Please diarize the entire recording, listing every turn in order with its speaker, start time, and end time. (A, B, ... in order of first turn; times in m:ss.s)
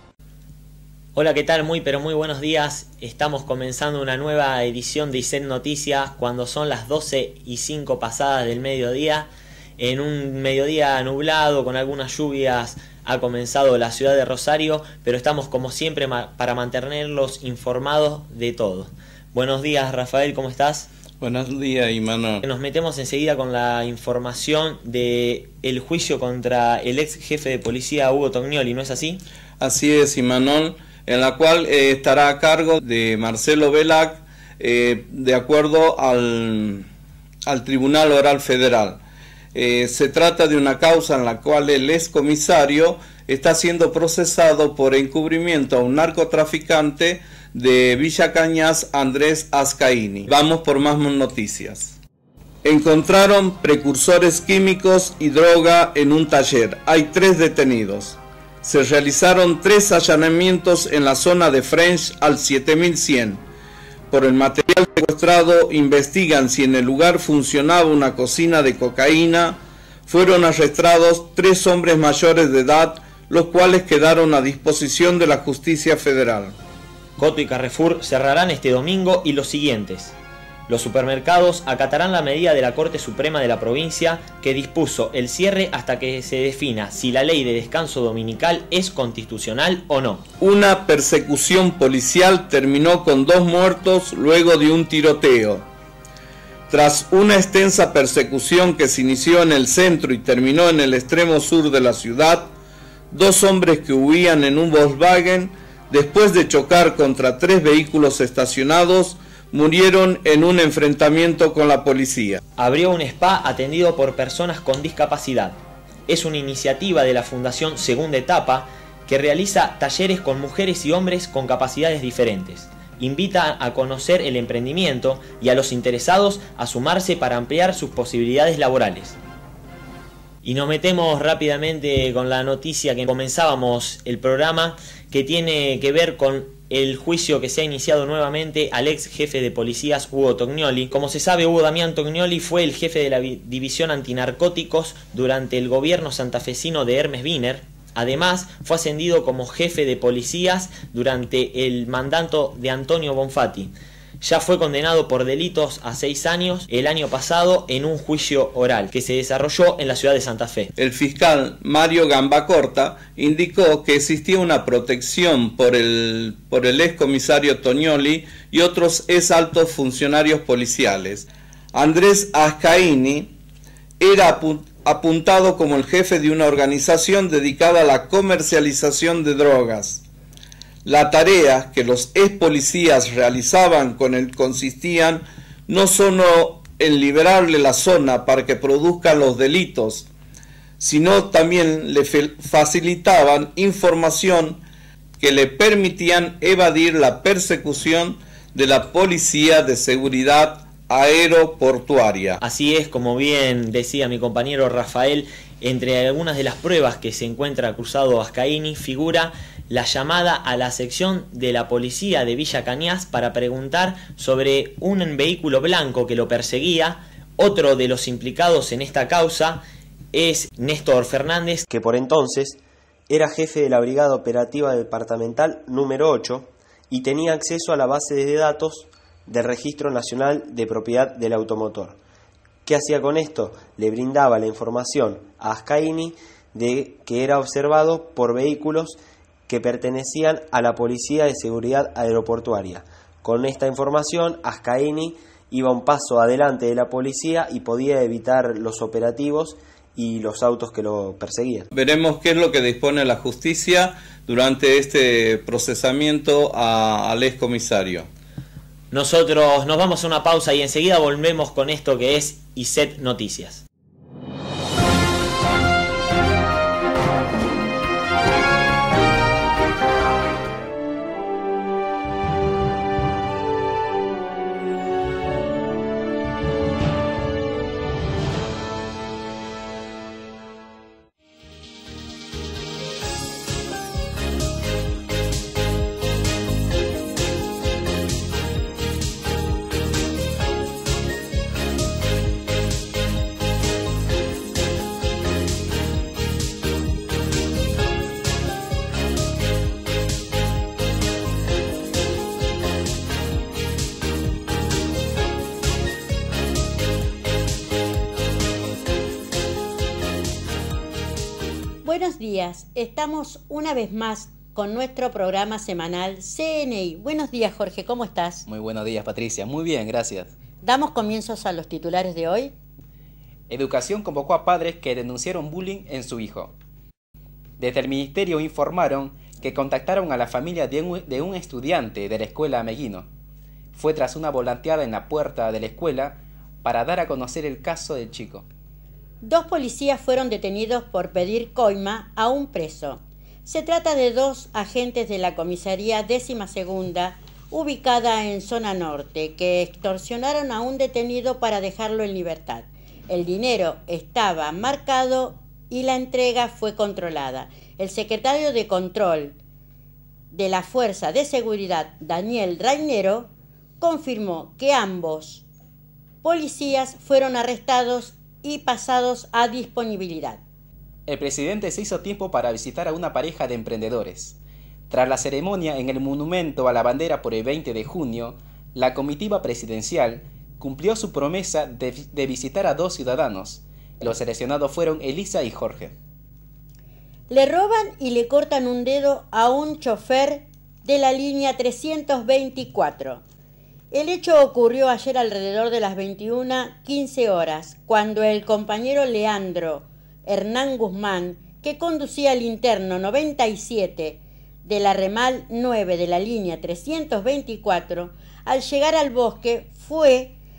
0:01.1-0:20.9 A
0:21.2-0:22.4 B
0:22.4-0:29.2 A
0:29.6-0:36.8 B
0:37.4-0:39.0 B
0:39.5-0:52.0 B
0:52.6-1:03.4 B
1:04.1-1:16.6 B
1:17.2-1:20.1 A
1:20.7-1:30.2 A
1:30.4-1:35.7 B
1:36.7-1:42.5 B
1:43.1-1:52.4 B
1:52.6-1:55.6 A
1:56.1-2:09.2 A
2:10.4-2:40.7 A
2:40.8-2:53.3 B
2:54.0-3:00.0 B
3:00.8-3:10.1 B
3:10.8-3:14.6 B
3:15.2-3:22.4 B
3:22.4-3:39.6 A
3:40.1-3:41.6 A
3:41.7-3:52.0 C
3:52.6-4:11.7 C
4:11.7-4:18.1 B
4:18.9-4:23.6 A
5:11.8-5:18.4 D
5:18.4-5:20.3 E
5:20.6-5:22.5 D
5:23.5-5:26.5 E
5:27.6-5:33.1 E
5:33.7-5:38.4 E
5:39.2-5:59.4 D
6:00.3-6:03.3 D
6:03.8-6:05.4 D
6:06.2-6:10.4 D
6:11.1-6:14.4 E
6:14.9-6:25.9 E
6:27.3-6:33.2 D
6:33.9-6:50.4 D